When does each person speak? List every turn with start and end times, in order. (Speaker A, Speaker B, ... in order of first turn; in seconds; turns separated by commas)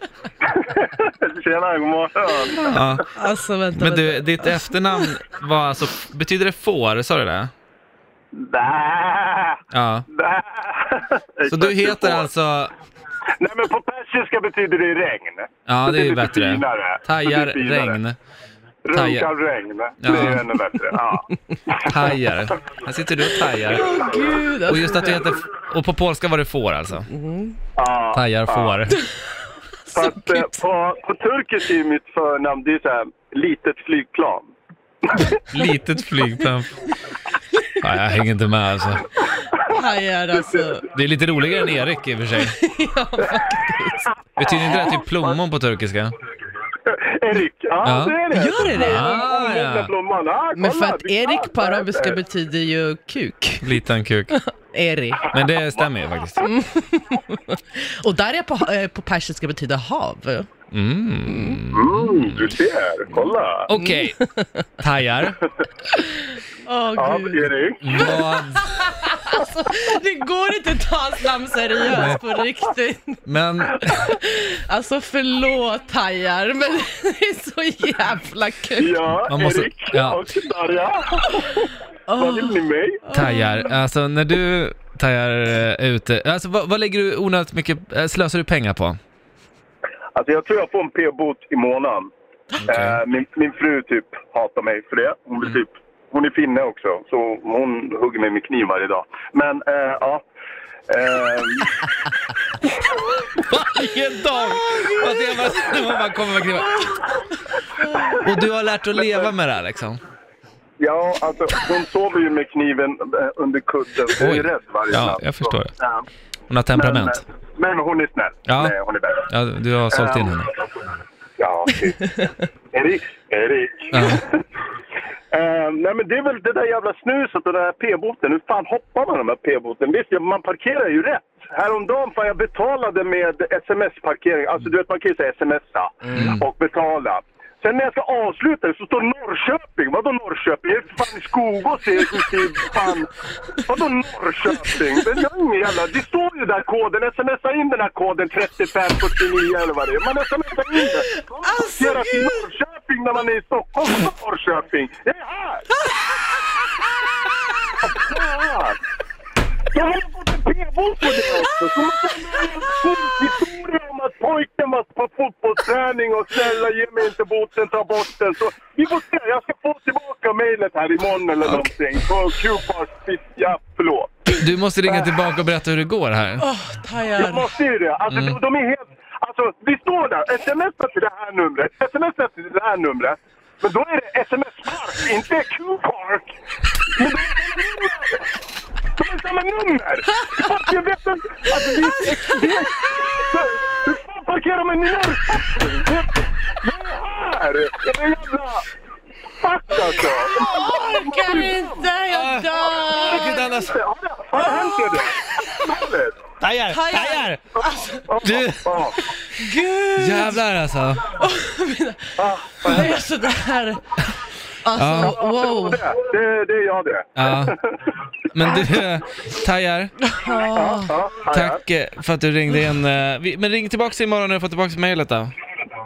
Speaker A: 0.4-3.0, Speaker B: 2.6-3.0, Speaker C: 3.1-5.1, Speaker B: 3.7-7.5, Speaker A: 8.3-12.3, Speaker B: 9.7-10.0, Speaker B: 11.5-12.7, Speaker A: 13.4-18.0, Speaker B: 15.7-18.2, Speaker A: 18.8-22.2, Speaker B: 18.9-19.3, Speaker B: 20.0-20.4, Speaker B: 21.8-24.1, Speaker C: 23.6-25.3, Speaker B: 24.6-27.1, Speaker C: 27.1-27.6, Speaker A: 27.8-28.8, Speaker B: 28.1-29.0, Speaker A: 29.9-34.5, Speaker C: 29.9-30.4, Speaker A: 35.1-35.4, Speaker B: 35.5-36.7, Speaker B: 37.8-39.1, Speaker C: 39.6-40.9, Speaker B: 40.9-42.6, Speaker C: 42.4-44.1, Speaker B: 44.4-46.1, Speaker A: 44.4-45.4, Speaker A: 46.9-52.2, Speaker B: 47.8-48.2, Speaker C: 48.3-49.3, Speaker B: 48.7-49.9, Speaker C: 50.5-55.3, Speaker B: 53.6-54.3, Speaker B: 55.3-56.5, Speaker C: 56.4-60.5, Speaker B: 60.7-62.5, Speaker C: 61.3-61.6, Speaker A: 61.7-63.7, Speaker B: 63.7-64.2, Speaker C: 63.8-64.6, Speaker B: 64.8-65.4, Speaker C: 65.9-73.2, Speaker A: 67.0-68.1, Speaker B: 67.8-68.6, Speaker B: 73.2-74.1, Speaker C: 73.7-79.0, Speaker A: 78.8-83.0, Speaker B: 79.3-80.2, Speaker C: 82.1-83.8, Speaker B: 83.1-89.0, Speaker A: 90.2-92.1, Speaker B: 92.6-93.0, Speaker A: 92.7-100.2, Speaker A: 100.9-101.7, Speaker B: 103.4-106.8, Speaker C: 104.7-105.8, Speaker C: 107.8-108.2, Speaker A: 108.0-108.2, Speaker B: 108.1-110.0, Speaker A: 108.9-109.3, Speaker A: 110.8-116.1, Speaker B: 114.2-115.7, Speaker B: 116.5-117.2, Speaker A: 116.7-119.3, Speaker B: 118.5-118.8, Speaker B: 119.2-120.5, Speaker A: 119.9-120.5, Speaker A: 121.4-124.4, Speaker B: 123.9-124.2, Speaker A: 125.3-143.1, Speaker B: 136.1-136.4, Speaker A: 143.7-155.7, Speaker C: 151.3-152.5, Speaker A: 157.8-158.8, Speaker A: 159.7-175.2, Speaker C: 161.2-161.5, Speaker B: 174.3-176.4, Speaker C: 176.4-177.5, Speaker A: 177.2-186.3, Speaker B: 178.1-178.4, Speaker A: 186.9-188.2, Speaker A: 189.0-198.7, Speaker A: 199.4-201.9, Speaker C: 200.0-203.5, Speaker B: 202.1-203.8, Speaker A: 202.8-206.2, Speaker C: 204.5-205.0, Speaker B: 206.4-207.4, Speaker C: 206.7-208.1, Speaker A: 207.6-209.0, Speaker B: 208.2-209.0, Speaker C: 209.2-210.4, Speaker B: 210.0-211.1, Speaker C: 211.2-215.8, Speaker A: 212.2-213.0, Speaker B: 214.8-215.2, Speaker A: 214.9-217.9, Speaker B: 217.2-217.5, Speaker B: 218.3-219.9, Speaker C: 220.0-220.9, Speaker A: 220.5-221.6, Speaker B: 221.3-225.3